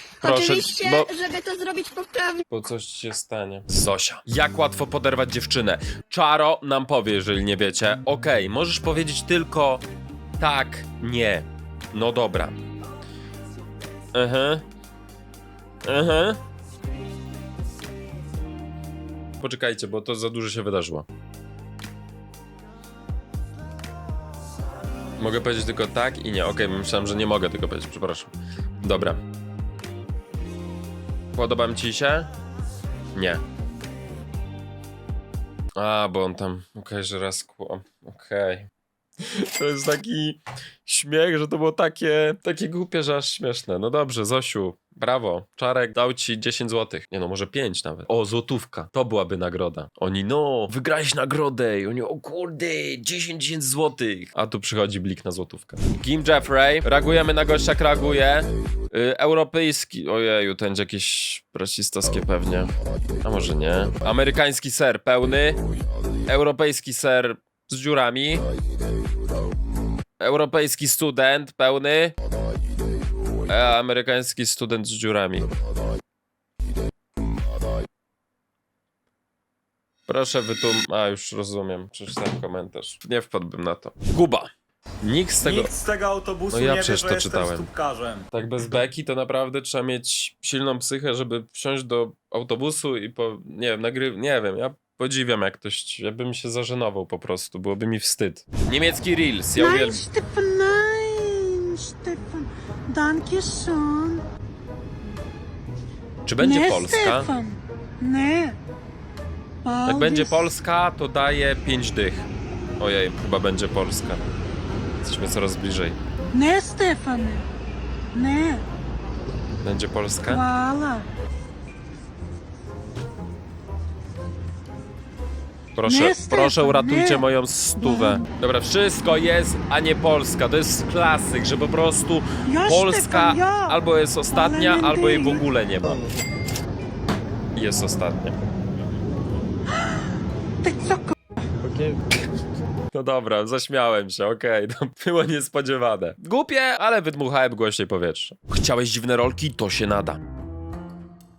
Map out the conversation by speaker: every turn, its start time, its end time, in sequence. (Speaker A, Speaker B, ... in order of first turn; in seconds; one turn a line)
Speaker A: 0.2-1.1
Speaker B: 0.2-2.4
Speaker A: 2.5-9.8
Speaker A: 10.4-12.6
Speaker A: 14.1-14.6
Speaker A: 15.9-16.4
Speaker A: 19.4-21.1
Speaker A: 25.2-29.2
Speaker A: 31.3-32.3
Speaker A: 33.1-33.4
Speaker A: 35.8-38.7
Speaker A: 39.2-62.7
Speaker A: 63.2-65.6
Speaker A: 66.3-68.4
Speaker A: 70.2-72.1
Speaker A: 73.5-75.5
Speaker A: 80.1-84.5
Speaker A: 85.0-85.8
Speaker C: 85.4-88.2
Speaker A: 86.5-87.7
Speaker A: 88.3-100.0
Speaker D: 99.5-104.2
Speaker A: 106.2-107.3
Speaker D: 106.4-108.6
Speaker D: 109.6-110.5
Speaker A: 109.8-112.3
Speaker A: 112.8-114.2
Speaker A: 115.0-116.0
Speaker D: 116.3-117.5
Speaker D: 118.1-118.6
Speaker A: 119.6-120.5
Speaker D: 120.2-121.0
Speaker A: 125.8-136.0
Speaker D: 125.8-128.2
Speaker D: 132.5-135.5
Speaker A: 137.6-138.4
Speaker D: 140.6-141.1
Speaker A: 141.6-142.0
Speaker A: 142.9-150.2